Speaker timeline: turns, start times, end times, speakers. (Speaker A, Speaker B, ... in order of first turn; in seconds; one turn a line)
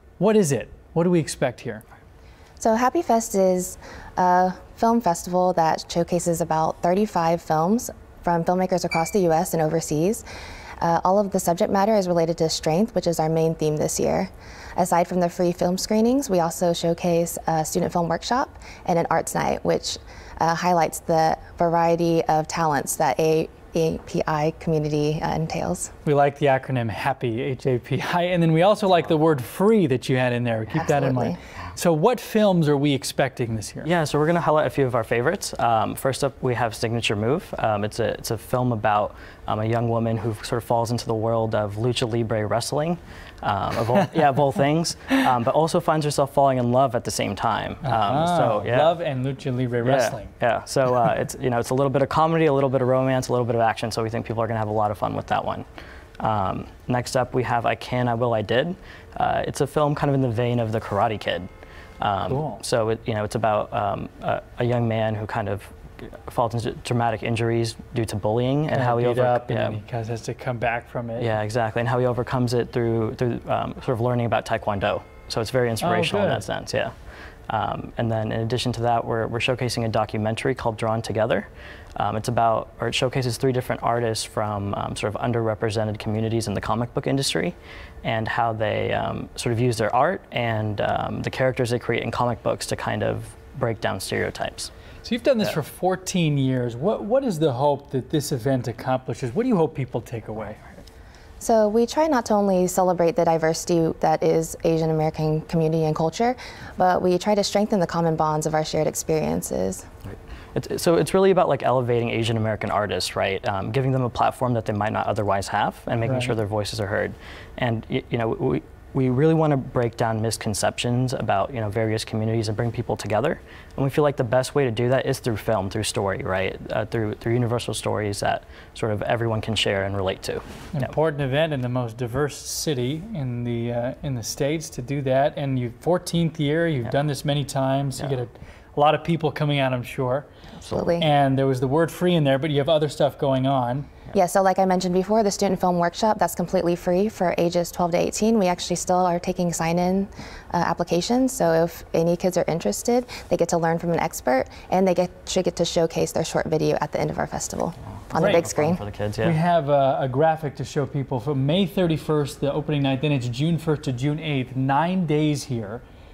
Speaker A: 0.2-1.8
Speaker B: 2.6-10.2
Speaker B: 10.8-25.9
Speaker A: 26.1-33.9
Speaker B: 30.7-31.4
Speaker C: 33.8-48.9
Speaker A: 47.8-50.3
Speaker C: 49.8-55.6
Speaker C: 56.2-61.5
Speaker C: 62.0-69.8
Speaker A: 62.3-62.6
Speaker A: 68.7-71.3
Speaker C: 71.2-76.9
Speaker A: 75.8-76.5
Speaker C: 77.5-94.7
Speaker A: 95.0-100.6
Speaker B: 101.4-109.9
Speaker C: 110.1-130.9
Speaker A: 116.0-116.3
Speaker A: 130.7-140.3
Speaker C: 140.6-140.9
Speaker B: 140.7-141.1
Speaker A: 141.0-143.9
Speaker B: 144.1-158.8
Speaker A: 158.2-158.5
Speaker C: 158.2-159.4
Speaker A: 159.2-165.8